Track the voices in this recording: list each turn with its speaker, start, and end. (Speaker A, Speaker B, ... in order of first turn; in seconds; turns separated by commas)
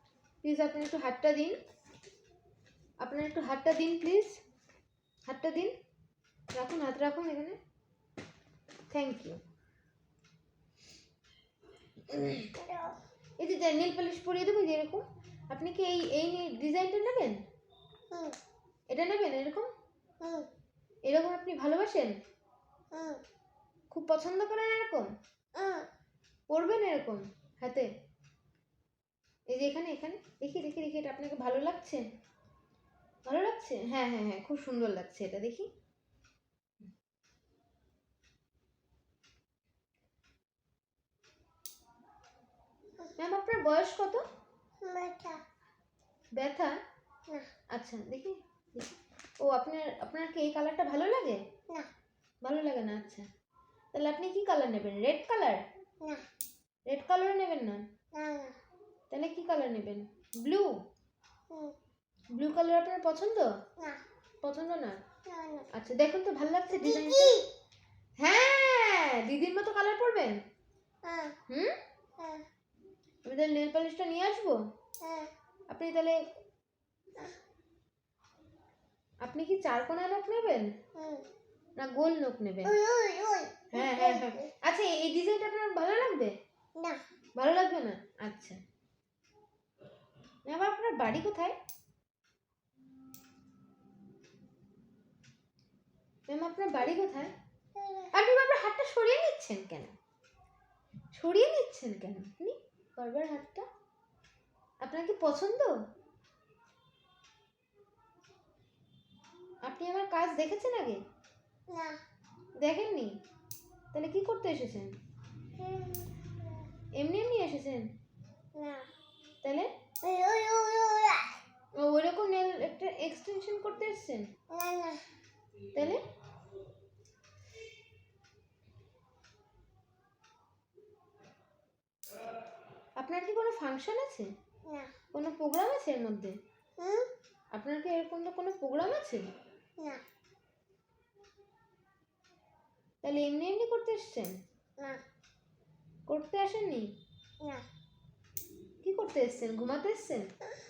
Speaker A: 0.4-1.6, Speaker A: 3.0-4.4, Speaker A: 5.3-5.7, Speaker A: 6.5-7.6, Speaker A: 8.9-9.4, Speaker A: 12.1-12.5, Speaker B: 12.6-13.0, Speaker A: 13.4-17.4, Speaker B: 18.1-18.4, Speaker A: 18.9-19.7, Speaker B: 20.2-20.5, Speaker A: 21.1-22.1, Speaker B: 22.9-23.2, Speaker A: 23.9-25.1, Speaker B: 25.6-25.9, Speaker A: 26.5-27.9, Speaker A: 29.5-32.1, Speaker A: 33.3-35.7, Speaker A: 43.2-44.2, Speaker B: 44.8-45.4, Speaker A: 46.4-46.8, Speaker A: 47.7-51.4, Speaker A: 52.4-53.3, Speaker A: 53.9-55.6, Speaker A: 56.9-57.8, Speaker B: 58.1-58.5, Speaker A: 59.1-60.7, Speaker A: 62.4-63.5, Speaker A: 64.4-65.0, Speaker B: 65.3-65.7, Speaker A: 65.7-67.4, Speaker B: 66.7-67.5, Speaker A: 68.2-70.4, Speaker B: 71.0-71.3, Speaker A: 71.5-71.7, Speaker A: 73.3-74.6, Speaker B: 75.0-75.3, Speaker A: 75.7-76.2, Speaker A: 79.2-80.7, Speaker B: 81.0-81.2, Speaker A: 81.8-82.8, Speaker B: 82.7-84.5, Speaker A: 83.7-86.3, Speaker A: 87.4-88.6, Speaker A: 90.5-91.6, Speaker A: 96.3-97.3, Speaker B: 97.8-98.1, Speaker A: 98.1-99.9, Speaker A: 101.1-103.7, Speaker A: 104.8-105.7, Speaker A: 109.7-111.0, Speaker A: 112.6-113.1, Speaker A: 113.9-115.0, Speaker B: 115.6-116.7, Speaker A: 117.0-117.9, Speaker B: 118.5-118.8, Speaker A: 119.4-119.7, Speaker B: 120.0-121.3, Speaker A: 121.8-124.3, Speaker B: 124.5-125.0, Speaker A: 125.7-126.0, Speaker A: 133.0-134.3, Speaker B: 134.7-134.9, Speaker A: 135.1-136.4, Speaker B: 136.8-137.1, Speaker A: 137.5-139.2, Speaker A: 143.0-144.4, Speaker A: 146.1-146.9, Speaker A: 148.8-150.3